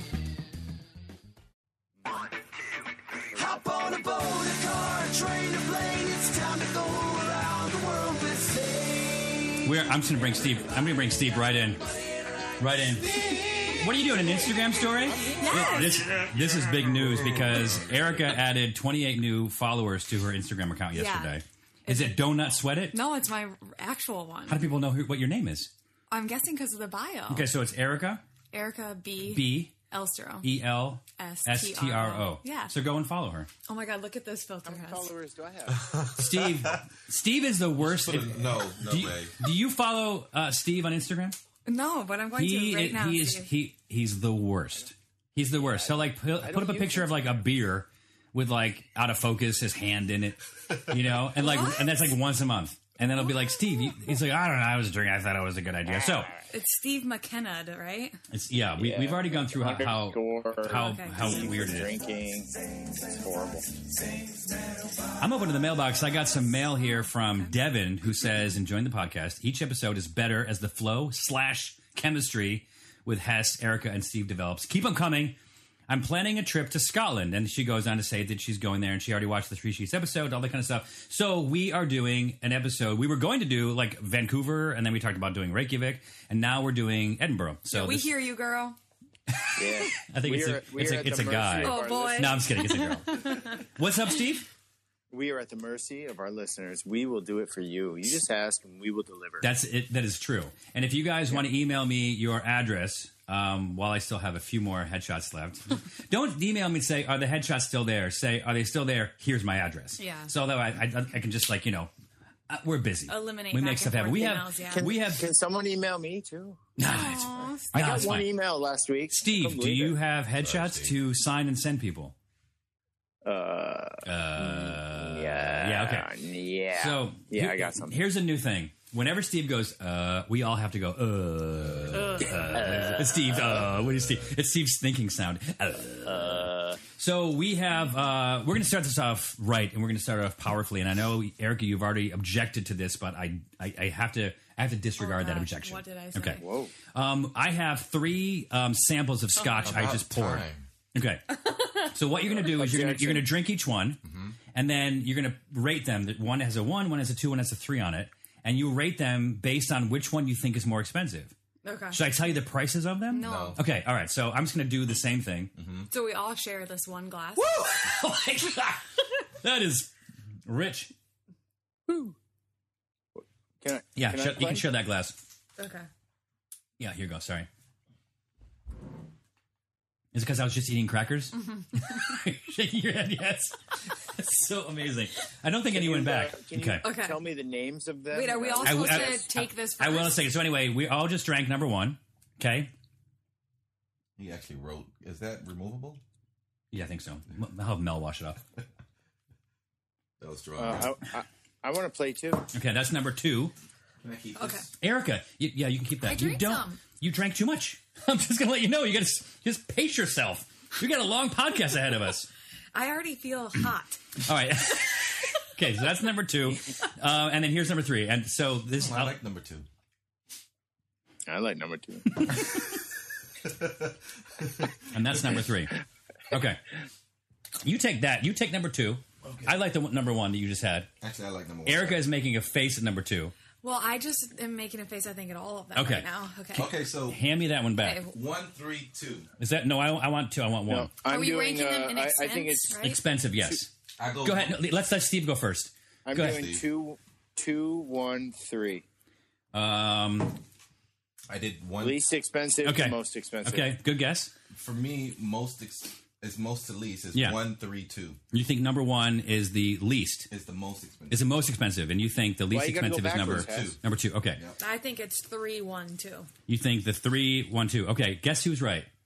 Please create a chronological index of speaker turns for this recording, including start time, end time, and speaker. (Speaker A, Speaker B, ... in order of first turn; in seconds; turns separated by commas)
Speaker A: 3.3-9.6, Speaker B: 9.6-11.8, Speaker B: 12.6-23.0, Speaker A: 13.1-13.8, Speaker C: 15.4-16.1, Speaker D: 16.9-18.3, Speaker C: 20.9-22.2, Speaker C: 22.9-24.7, Speaker B: 24.5-25.7, Speaker C: 26.1-27.5, Speaker B: 27.3-28.2, Speaker C: 28.5-30.5, Speaker B: 29.3-29.7, Speaker B: 30.4-33.5, Speaker C: 31.2-32.7, Speaker C: 33.7-35.1, Speaker E: 34.6-35.9, Speaker D: 35.9-36.8, Speaker B: 36.1-41.4, Speaker D: 37.8-39.3, Speaker C: 41.6-43.5, Speaker B: 42.4-56.3, Speaker E: 45.6-47.3, Speaker C: 51.4-51.9, Speaker C: 53.2-53.9, Speaker E: 55.9-56.5, Speaker C: 56.5-58.2, Speaker B: 58.3-61.9, Speaker E: 58.8-62.5, Speaker C: 60.6-61.3, Speaker E: 63.1-63.8, Speaker B: 65.2-75.4, Speaker C: 67.0-67.5, Speaker B: 75.9-88.1, Speaker C: 87.7-88.8, Speaker B: 89.3-94.5, Speaker E: 89.5-92.6, Speaker C: 91.6-93.6, Speaker E: 95.1-99.5, Speaker B: 99.4-111.9, Speaker C: 110.0-110.3, Speaker B: 112.5-115.2, Speaker C: 113.1-114.9, Speaker E: 114.7-116.6, Speaker B: 116.8-118.3, Speaker C: 116.8-118.1, Speaker E: 117.7-120.0, Speaker B: 119.1-122.1, Speaker D: 120.4-120.9, Speaker E: 123.2-128.0, Speaker B: 124.0-126.1, Speaker B: 126.8-146.4, Speaker D: 131.6-132.4, Speaker E: 132.1-133.5, Speaker E: 136.0-136.8, Speaker C: 145.0-146.4, Speaker E: 146.4-146.7, Speaker B: 146.9-151.2, Speaker C: 149.3-149.7, Speaker D: 149.6-150.6, Speaker C: 151.3-151.8, Speaker B: 151.9-154.0, Speaker E: 152.3-153.3, Speaker D: 154.0-154.4, Speaker B: 154.5-161.3, Speaker C: 161.6-162.0, Speaker B: 161.9-165.5, Speaker C: 163.1-163.6, Speaker D: 163.2-163.6, Speaker D: 165.6-165.9, Speaker C: 165.9-167.6, Speaker B: 167.4-169.9, Speaker B: 170.5-170.9, Speaker E: 171.9-172.1, Speaker E: 173.2-174.7, Speaker B: 173.9-175.2, Speaker C: 175.6-175.9, Speaker B: 176.8-177.5, Speaker B: 180.1-186.9, Speaker E: 185.7-189.2, Speaker C: 186.8-187.2, Speaker C: 188.1-190.2, Speaker B: 188.6-192.7, Speaker D: 194.2-196.0, Speaker B: 196.7-198.4, Speaker D: 200.2-200.9, Speaker E: 200.6-202.4, Speaker B: 202.5-203.5, Speaker D: 204.0-204.7, Speaker C: 204.4-204.7, Speaker B: 204.8-212.3, Speaker C: 206.0-206.8, Speaker C: 212.7-214.0, Speaker B: 214.2-219.2, Speaker D: 218.8-219.7, Speaker E: 221.3-222.6, Speaker D: 223.4-224.7, Speaker B: 224.9-225.7, Speaker B: 226.3-226.6, Speaker B: 227.6-230.9, Speaker D: 229.2-229.6, Speaker D: 231.0-232.1, Speaker B: 231.6-233.3, Speaker C: 233.6-236.7, Speaker B: 235.7-236.1, Speaker D: 236.5-237.2, Speaker B: 237.1-238.0, Speaker C: 237.8-238.2, Speaker D: 238.1-239.3, Speaker B: 239.4-240.9, Speaker E: 240.7-242.8, Speaker C: 241.1-243.0, Speaker B: 242.8-243.7, Speaker D: 244.0-244.6, Speaker B: 244.2-246.4, Speaker E: 246.1-248.8, Speaker D: 246.1-246.6, Speaker B: 249.5-250.4, Speaker D: 251.3-252.0, Speaker E: 251.8-253.7, Speaker B: 252.6-254.3, Speaker D: 254.5-258.2, Speaker B: 257.1-257.4, Speaker B: 258.3-260.3, Speaker D: 260.3-261.3, Speaker B: 261.1-264.4, Speaker E: 262.5-263.8, Speaker D: 263.2-263.8, Speaker C: 264.6-266.3, Speaker B: 266.5-268.9